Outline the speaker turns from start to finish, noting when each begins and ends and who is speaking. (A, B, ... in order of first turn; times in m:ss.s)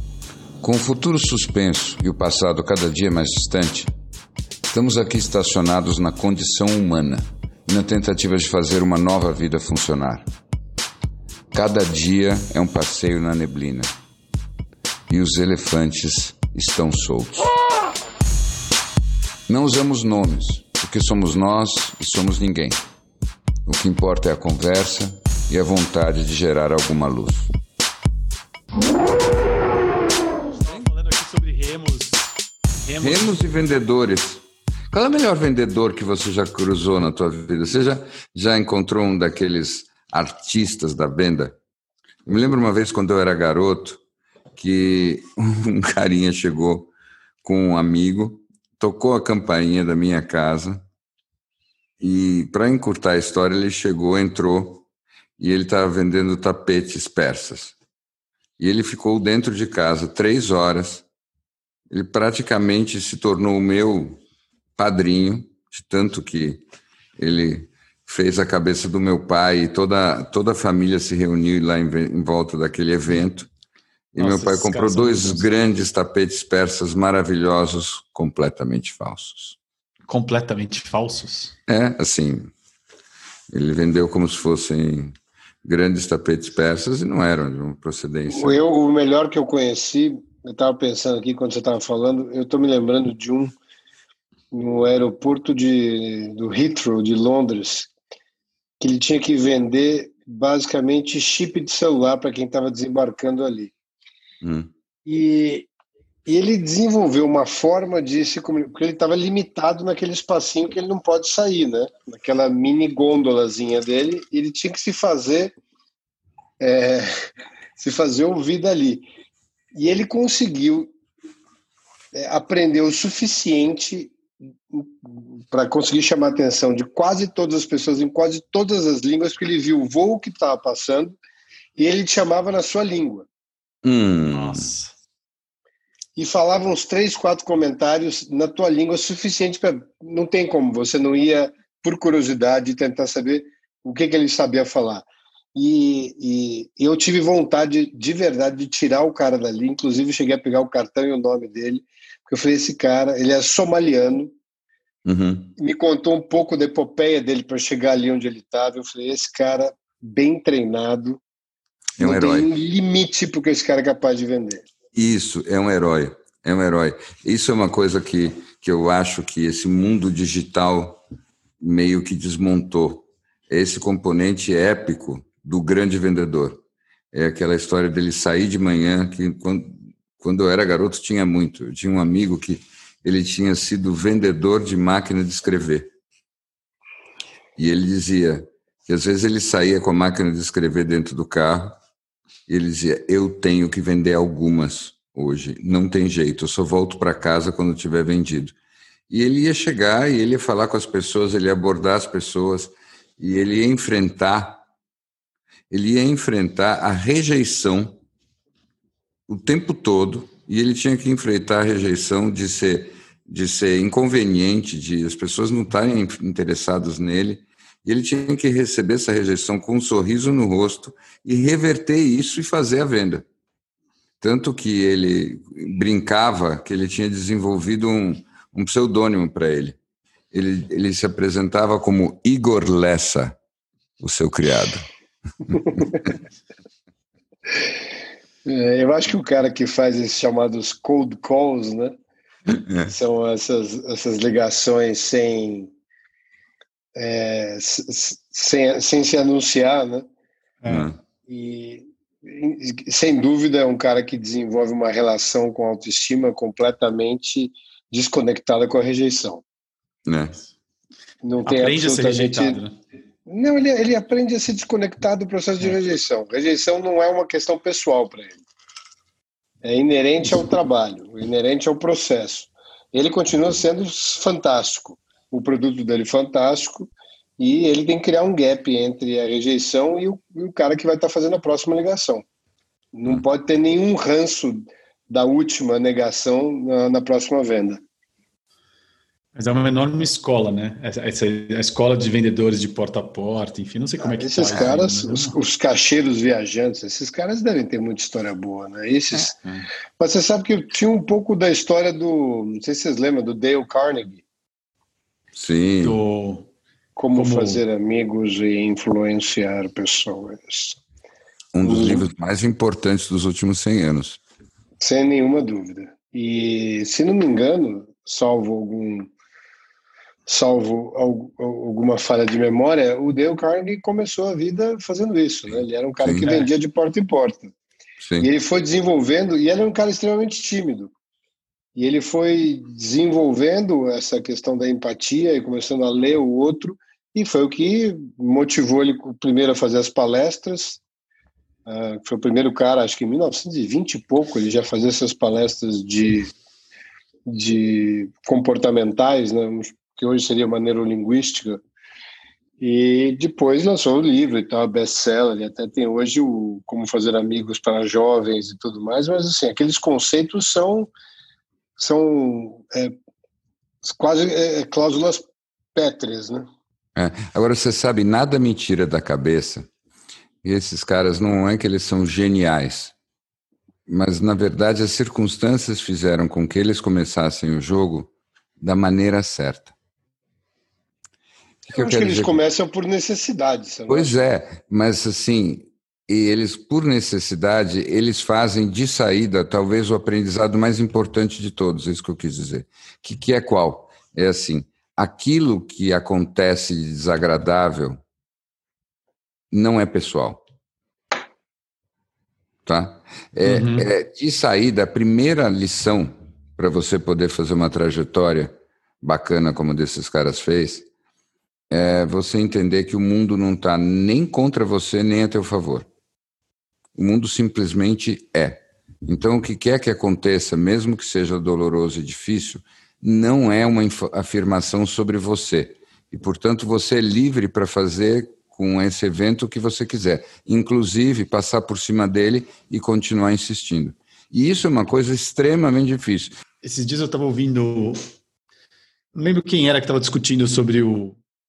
0:00.6-0:03.9 A
0:04.7-0:10.3 A
0:11.5-0:13.9 A
0:15.1-0:17.5 A
0:19.5-0:22.8 A
0:23.6-0:27.5 A
0:30.5-0:32.3 B
0:32.8-0:33.4 B
0:33.0-0:41.6 A
0:42.2-0:44.0 A
0:44.6-0:46.9 A
0:47.4-0:50.8 A
0:52.0-0:54.8 A
0:55.4-0:57.7 A
0:58.6-1:01.0 A
1:01.9-1:04.2 A
1:04.8-1:06.6 A
1:07.2-1:13.5 A
1:14.1-1:19.6 A
1:14.2-1:15.5 B
1:20.1-1:21.5 B
1:21.7-1:22.5 A
1:23.5-1:28.6 A
1:28.3-1:33.6 C
1:34.5-1:37.9 C
1:38.8-1:43.7 C
1:44.4-1:44.7 A
1:45.0-1:45.7 C
1:46.2-1:55.5 C
1:56.6-1:57.1 C
1:57.8-1:59.0 C
1:59.7-2:00.9 C
2:02.1-2:04.1 C
2:04.7-2:11.2 C
2:11.8-2:13.3 C
2:13.8-2:14.6 A
2:14.3-2:14.9 B
2:16.2-2:34.3 C
2:35.0-2:35.5 A
2:35.6-2:41.2 C
2:42.0-2:42.5 A
2:42.0-2:44.7 C
2:44.9-2:51.0 A
2:51.6-2:56.6 A
2:57.1-3:05.9 A
3:07.6-3:11.8 A
3:12.5-3:18.5 A
3:19.1-3:24.6 A
3:25.7-3:28.0 A
3:29.3-3:43.2 A
3:44.2-3:49.8 A
3:50.3-3:53.4 A
3:54.0-3:54.8 A
3:55.5-3:56.0 C
3:58.4-4:02.0 C
4:02.5-4:02.9 A
4:02.8-4:05.7 C
4:07.0-4:10.0 C
4:10.6-4:10.9 B
4:10.7-4:11.0 A
4:11.3-4:19.4 C
4:20.1-4:20.4 A
4:21.2-4:22.6 C
4:21.4-4:22.7 B
4:23.3-4:28.4 C
4:29.6-4:42.2 C
4:42.9-4:47.8 C
4:49.3-4:55.3 B
4:54.0-4:59.4 C
4:59.1-4:59.6 A
5:00.0-5:04.2 C
5:05.3-5:06.0 A
5:05.8-5:06.5 B
5:07.0-5:10.8 C
5:07.1-5:07.6 B
5:11.5-5:14.2 A
5:11.6-5:12.0 C
5:14.8-5:19.1 C
5:20.3-5:27.5 C
5:25.5-5:26.3 A
5:26.2-5:26.5 B
5:28.0-5:28.3 A
5:28.2-5:30.9 C
5:31.8-5:40.8 C
5:41.6-5:46.3 C
5:47.3-5:51.6 C
5:52.6-6:00.9 C
6:01.8-6:02.9 C
6:03.8-6:05.2 C
6:05.7-6:06.5 C
6:07.0-6:09.7 A
6:10.4-6:12.9 A
6:13.9-6:19.7 A
6:21.6-6:22.4 A
6:21.7-6:24.1 C
6:23.9-6:38.0 A
6:39.5-6:40.4 A
6:42.6-6:50.8 A
6:43.4-6:43.9 B
6:51.7-6:55.9 A
6:57.0-7:16.4 A
7:16.6-7:18.1 B
7:19.1-7:21.2 B